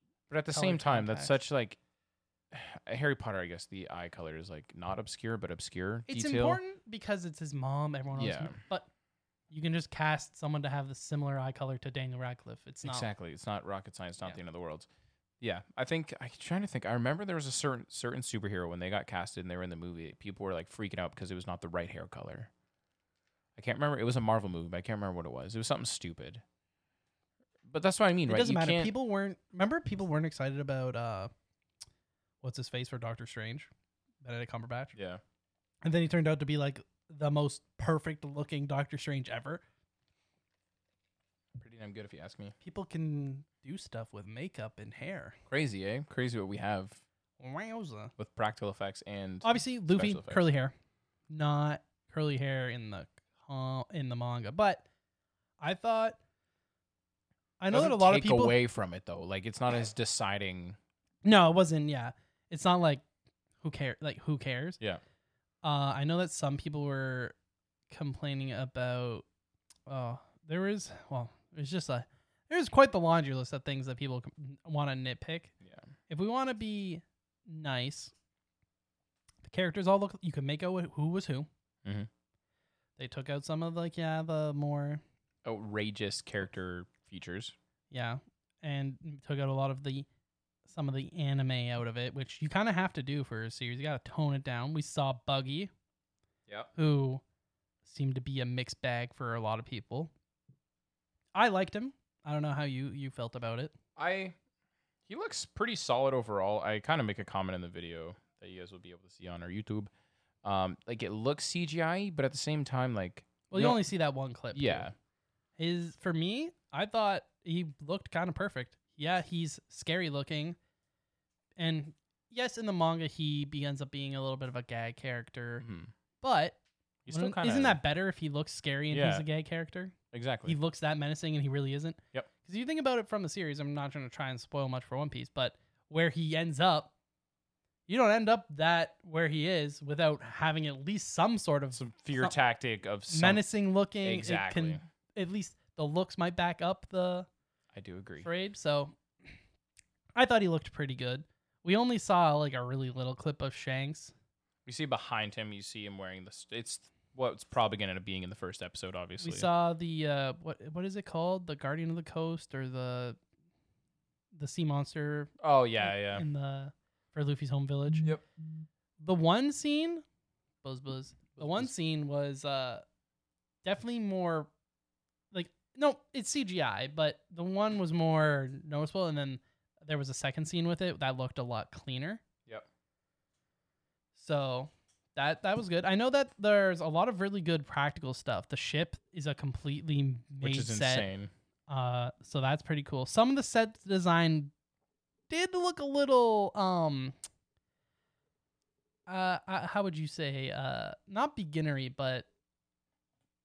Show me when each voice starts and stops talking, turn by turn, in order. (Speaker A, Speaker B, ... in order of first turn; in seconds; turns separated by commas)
Speaker A: 0.3-1.8, Speaker B: 0.5-1.4, Speaker A: 2.5-6.6, Speaker B: 6.1-8.9, Speaker A: 8.2-8.6, Speaker B: 9.5-13.1, Speaker A: 12.8-14.9, Speaker A: 15.4-22.5, Speaker A: 23.6-26.4, Speaker A: 27.6-28.9, Speaker B: 28.3-31.3, Speaker B: 32.4-33.7, Speaker B: 34.2-34.9, Speaker A: 35.0-35.2, Speaker B: 35.8-39.6, Speaker A: 41.6-42.5, Speaker B: 42.6-45.4, Speaker A: 45.5-47.0, Speaker B: 47.4-48.1, Speaker A: 48.2-50.4, Speaker B: 49.4-50.7, Speaker B: 51.3-54.9, Speaker B: 55.6-56.2, Speaker B: 57.6-58.6, Speaker A: 57.7-60.8, Speaker B: 61.2-63.0, Speaker B: 63.6-64.8, Speaker B: 65.6-67.3, Speaker B: 67.9-69.2, Speaker B: 69.9-75.5, Speaker B: 76.1-78.1, Speaker B: 79.5-81.5, Speaker B: 83.0-85.0, Speaker A: 85.5-87.5, Speaker B: 87.9-90.1, Speaker B: 90.7-95.7, Speaker B: 96.8-97.2, Speaker B: 97.8-100.1, Speaker B: 101.3-103.8, Speaker A: 104.0-104.4, Speaker A: 105.1-109.9, Speaker A: 110.4-113.8, Speaker B: 113.5-114.9, Speaker A: 114.5-114.9, Speaker B: 115.6-120.6, Speaker B: 121.6-125.7, Speaker A: 125.6-125.9, Speaker B: 126.2-126.6, Speaker A: 127.1-127.8, Speaker B: 127.1-136.9, Speaker A: 128.9-129.2, Speaker A: 130.1-130.6, Speaker B: 137.9-142.3, Speaker A: 141.7-143.4, Speaker B: 143.1-147.3, Speaker A: 144.0-144.8, Speaker A: 147.7-148.3, Speaker B: 148.2-149.0, Speaker B: 150.2-154.1, Speaker A: 154.7-159.5, Speaker B: 159.2-163.2, Speaker B: 164.3-168.1, Speaker A: 165.4-166.3, Speaker B: 169.0-170.0, Speaker B: 170.6-172.8, Speaker A: 171.4-171.7, Speaker B: 173.6-174.5, Speaker B: 175.3-182.2, Speaker B: 184.2-191.1, Speaker A: 190.4-191.3, Speaker B: 191.7-194.5, Speaker B: 195.3-197.2, Speaker B: 199.1-202.3